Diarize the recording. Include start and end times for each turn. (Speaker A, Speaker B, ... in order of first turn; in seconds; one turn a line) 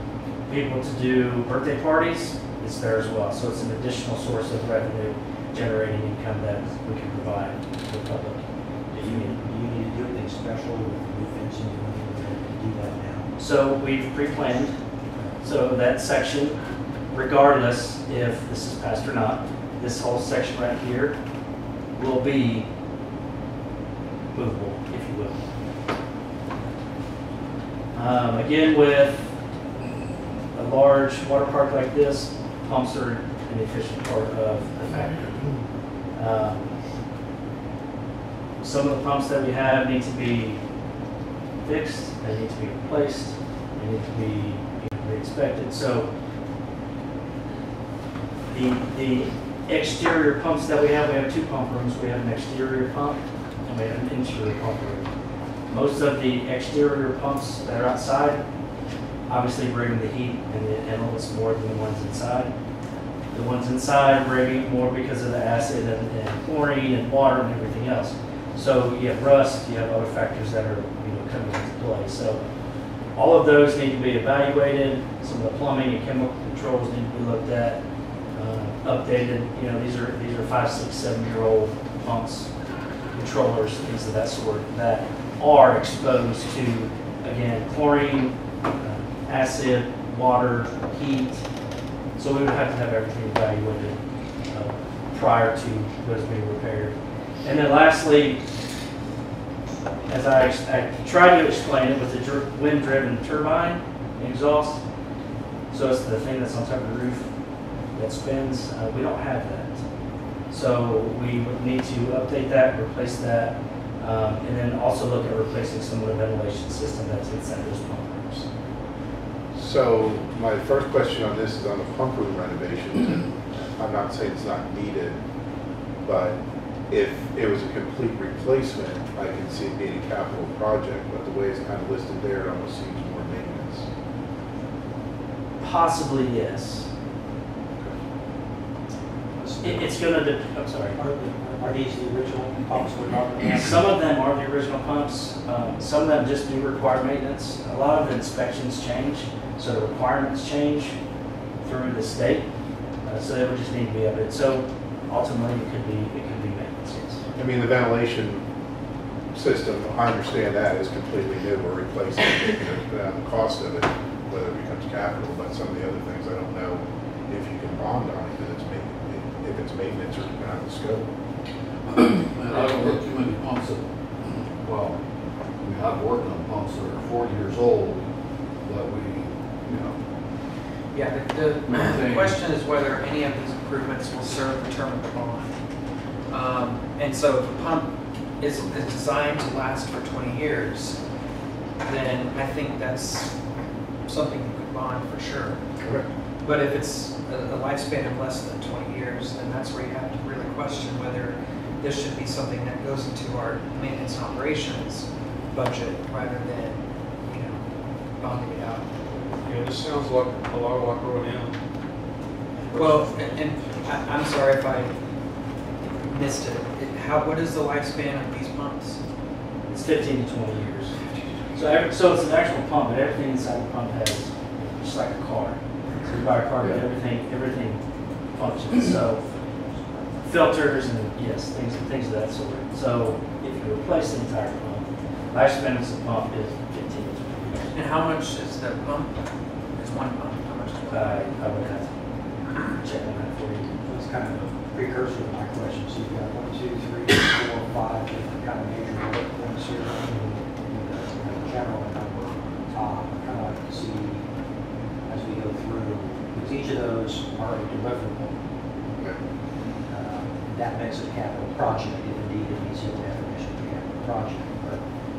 Speaker A: 0.5-9.4
Speaker B: 9.0-13.3
Speaker A: 13.4-14.8
Speaker A: 15.4-16.6
Speaker A: 17.1-21.2
Speaker A: 21.9-22.7
Speaker A: 24.3-25.4
Speaker A: 27.9-29.3
Speaker A: 30.5-35.4
Speaker A: 36.1-36.7
Speaker A: 38.6-40.6
Speaker A: 41.6-46.1
Speaker A: 48.5-55.1
Speaker A: 55.7-58.4
Speaker A: 59.3-62.5
Speaker A: 63.3-72.4
Speaker A: 73.1-77.8
Speaker A: 78.3-82.5
Speaker A: 83.1-91.4
Speaker A: 92.2-94.0
Speaker A: 94.5-98.4
Speaker A: 100.1-104.8
Speaker A: 105.7-107.3
Speaker A: 107.9-109.8
Speaker A: 110.5-118.5
Speaker C: 119.5-125.2
Speaker C: 126.0-126.4
Speaker C: 126.9-133.9
Speaker A: 135.6-136.9
Speaker B: 139.4-139.9
Speaker A: 139.6-141.0
Speaker B: 140.9-143.8
Speaker A: 143.5-151.0
Speaker A: 151.6-152.5
Speaker A: 153.0-157.2
Speaker C: 157.3-158.4
Speaker C: 159.3-171.1
Speaker D: 171.8-175.0
Speaker E: 172.5-172.9
Speaker D: 175.6-178.0
Speaker D: 178.6-179.9
Speaker E: 180.9-185.5
Speaker D: 181.7-182.4
Speaker E: 186.3-191.0
Speaker E: 191.8-193.3
Speaker E: 194.1-195.6
Speaker E: 196.4-207.6
Speaker E: 208.2-209.0
Speaker F: 209.4-211.5
Speaker F: 212.7-213.4
Speaker E: 212.7-214.9
Speaker E: 216.0-219.0
Speaker A: 219.7-220.9
Speaker A: 221.5-227.8
Speaker C: 226.6-226.8
Speaker A: 228.3-229.2
Speaker A: 230.2-237.7
Speaker E: 237.7-239.1
Speaker E: 239.7-241.8
Speaker A: 240.9-241.9
Speaker A: 242.7-243.7
Speaker B: 243.8-250.1
Speaker A: 250.1-250.4
Speaker B: 250.6-254.2
Speaker B: 255.1-258.4
Speaker B: 259.9-264.8